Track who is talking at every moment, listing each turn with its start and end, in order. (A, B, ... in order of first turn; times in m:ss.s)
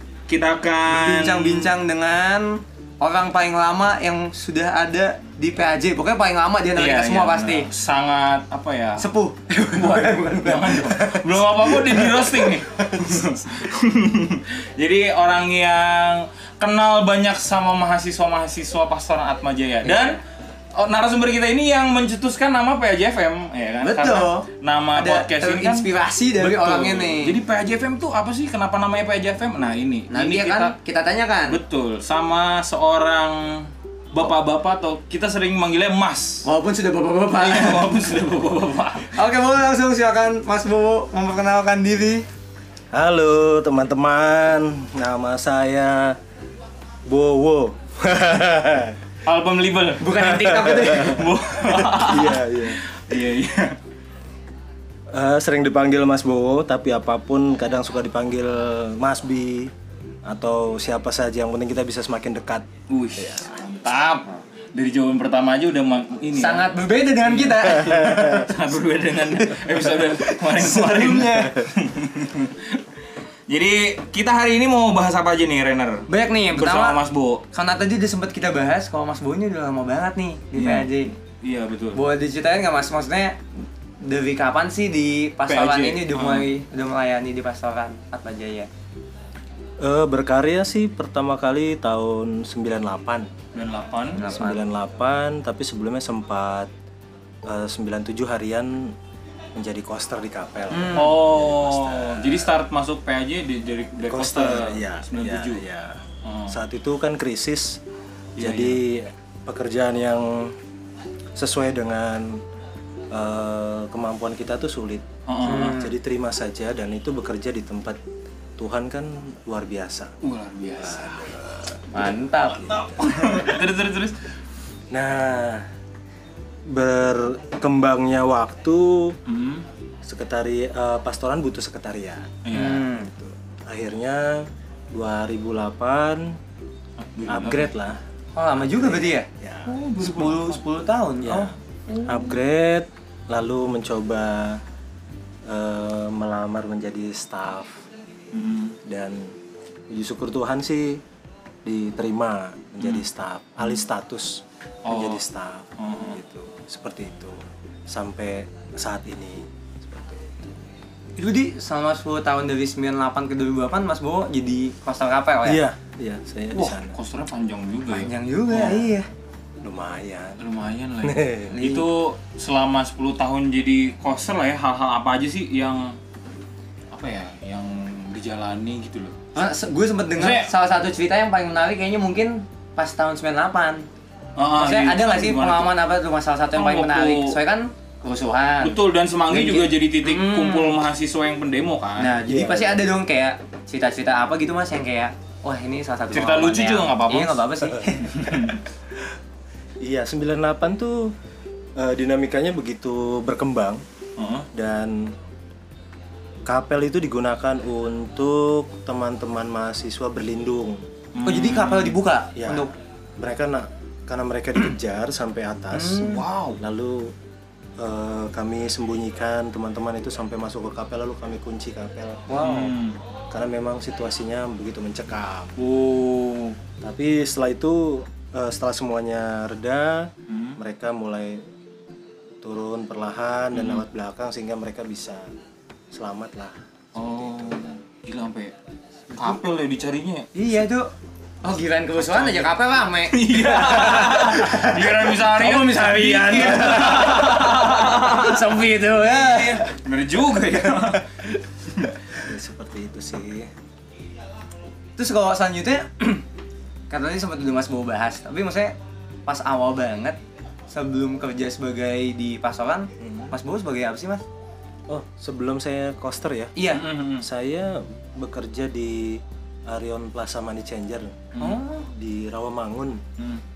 0:00.3-0:01.7 A
0:00.9-0:07.7 B
0:06.8-0:09.1 A
0:09.0-0:13.2 B
0:09.6-0:20.2 A
0:19.8-0:20.2 B
0:20.8-0:30.7 A
0:23.8-0:27.4 B
0:30.1-0:31.6 B
0:31.5-0:36.4 A
0:36.4-0:38.0 B
0:37.4-0:39.2 A
0:39.1-0:42.2 B
0:42.9-0:46.2 C
0:47.0-0:49.0 C
0:49.2-0:53.8 A
0:50.0-0:51.2 B
0:50.2-0:52.9 C
0:55.1-0:59.7 C
1:00.2-1:03.6 C
1:02.9-1:06.7 A
1:06.3-1:08.5 B
1:07.2-1:17.4 A
1:10.0-1:11.7 B
1:16.1-1:17.0 B
1:17.5-1:21.1 B
1:20.6-1:22.0 A
1:21.9-1:23.4 B
1:24.0-1:28.7 B
1:25.5-1:26.5 A
1:29.8-1:33.3 C
1:33.5-1:34.3 A
1:34.1-1:34.6 B
1:34.3-1:36.7 C
1:37.4-1:39.0 C
1:39.5-1:42.5 C
1:40.7-1:41.1 B
1:40.9-1:45.6 A
1:44.0-1:47.8 C
1:46.2-1:46.6 A
1:48.4-1:48.8 A
1:48.4-1:50.6 C
1:51.4-1:52.4 C
1:53.1-1:58.0 C
1:55.2-1:55.8 A
1:55.4-1:55.9 B
1:58.6-2:00.2 C
2:00.2-2:01.4 A
2:00.8-2:01.8 C
2:01.9-2:02.8 B
2:02.4-2:03.5 C
2:02.7-2:04.2 A
2:04.9-2:05.7 C
2:06.6-2:09.2 C
2:09.2-2:09.6 A
2:10.0-2:12.4 C
2:12.4-2:12.9 A
2:12.5-2:13.1 B
2:12.9-2:16.4 C
2:17.0-2:17.7 A
2:17.3-2:18.0 C
2:18.4-2:22.2 B
2:18.5-2:19.8 C
2:19.7-2:20.6 A
2:21.2-2:24.6 C
2:25.4-2:27.9 C
2:28.3-2:28.8 A
2:28.8-2:29.4 C
2:29.9-2:31.0 C
2:31.6-2:40.6 C
2:34.8-2:35.2 A
2:35.8-2:36.2 A
2:41.2-2:45.6 B
2:45.4-2:47.0 C
2:46.5-2:48.8 A
2:47.9-2:49.1 B
2:49.6-2:50.4 C
2:50.4-2:56.0 A
2:51.0-2:51.6 C
2:51.5-2:51.9 B
2:56.9-2:59.2 A
2:59.3-3:03.9 B
3:00.2-3:00.5 A
3:04.4-3:05.7 A
3:04.6-3:08.8 B
3:06.5-3:07.4 A
3:08.6-3:12.2 A
3:09.3-3:10.8 B
3:12.0-3:18.4 B
3:12.2-3:12.8 C
3:16.1-3:17.6 A
3:18.1-3:18.6 A
3:18.2-3:19.1 C
3:19.8-3:21.1 C
3:21.8-3:23.8 C
3:24.2-3:24.5 A
3:24.5-3:25.1 C
3:26.4-3:30.8 C
3:31.1-3:32.0 A
3:31.2-3:32.7 B
3:32.3-3:37.1 C
3:35.7-3:36.2 B
3:36.0-3:36.6 A
3:37.8-3:42.2 C
3:42.3-3:42.8 B
3:42.4-3:43.0 A
3:43.3-3:45.6 C
3:45.6-3:46.6 A
3:46.8-3:51.4 C
3:50.3-3:50.6 A
3:52.4-3:55.3 C
3:53.5-3:53.8 A
3:55.9-3:57.7 C
3:56.9-3:58.5 A
3:59.1-4:00.3 A
4:00.3-4:00.9 B
4:01.4-4:09.7 B
4:02.0-4:02.5 A
4:03.0-4:12.0 A
4:12.1-4:13.5 C
4:15.0-4:16.2 B
4:16.9-4:18.7 B
4:19.2-4:24.2 B
4:23.0-4:23.3 C
4:24.9-4:26.5 C
4:26.6-4:26.8 B
4:26.7-4:27.2 A
4:27.2-4:31.3 C
4:31.3-4:31.6 A
4:31.4-4:31.9 B
4:31.8-4:33.0 C